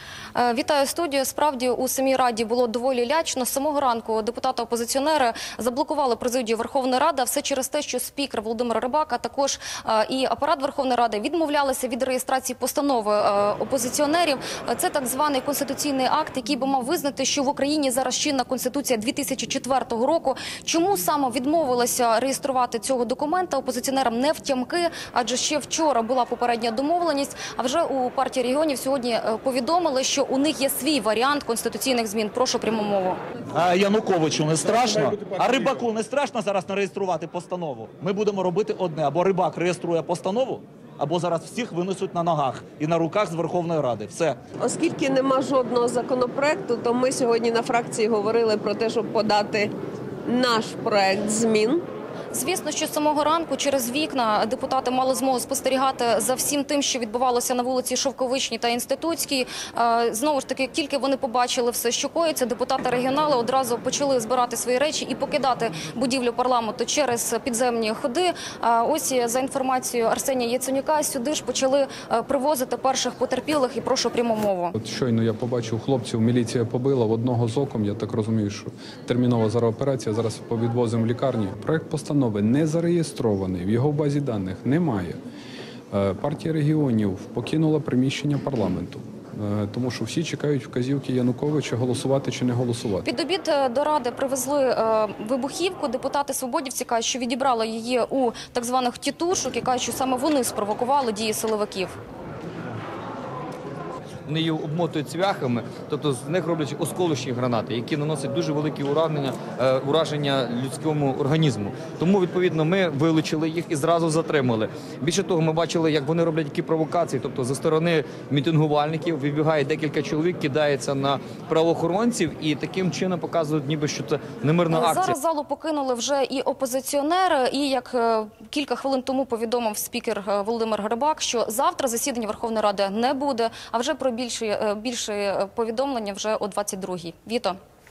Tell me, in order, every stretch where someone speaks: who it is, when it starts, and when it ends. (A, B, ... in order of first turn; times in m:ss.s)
0:00.4-0:33.2 A
0:33.5-0:44.4 B
0:44.6-0:49.7 C
0:50.2-0:51.8 C
0:52.3-1:14.7 A
1:14.7-1:25.2 D
1:25.9-1:33.1 D
1:33.0-1:42.0 A
1:44.2-2:05.2 E
2:04.7-2:17.6 A